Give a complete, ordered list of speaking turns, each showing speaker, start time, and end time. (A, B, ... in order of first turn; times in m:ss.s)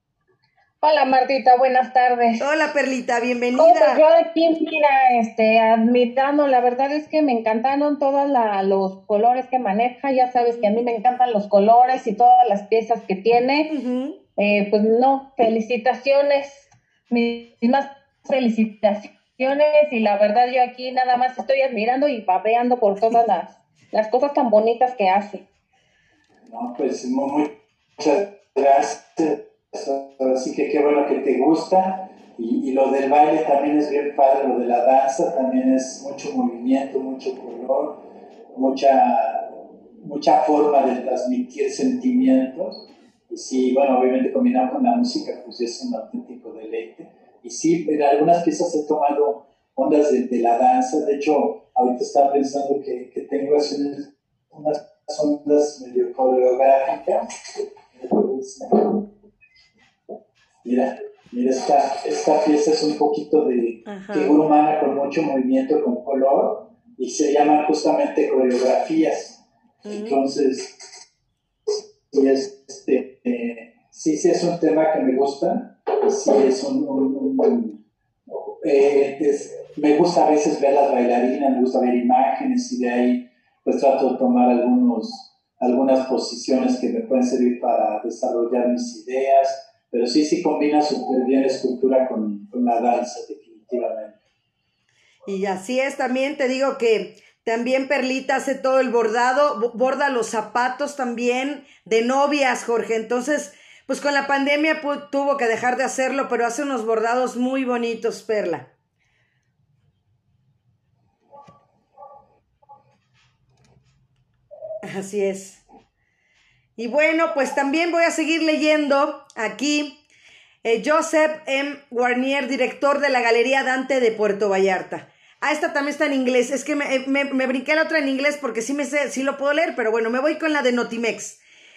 0:00.8-0:02.4 A
0:02.4-0:04.0 B
0:03.6-0:13.7 A
0:13.7-0:14.2 B
0:14.4-0:25.4 A
0:26.5-0:59.1 C
1:00.6-1:10.9 C
1:03.8-1:04.4 B
1:09.8-1:10.2 B
1:11.7-1:34.2 C
1:35.2-1:48.7 B
1:54.8-1:55.6 B
1:56.8-2:00.0 B
2:00.6-2:11.4 B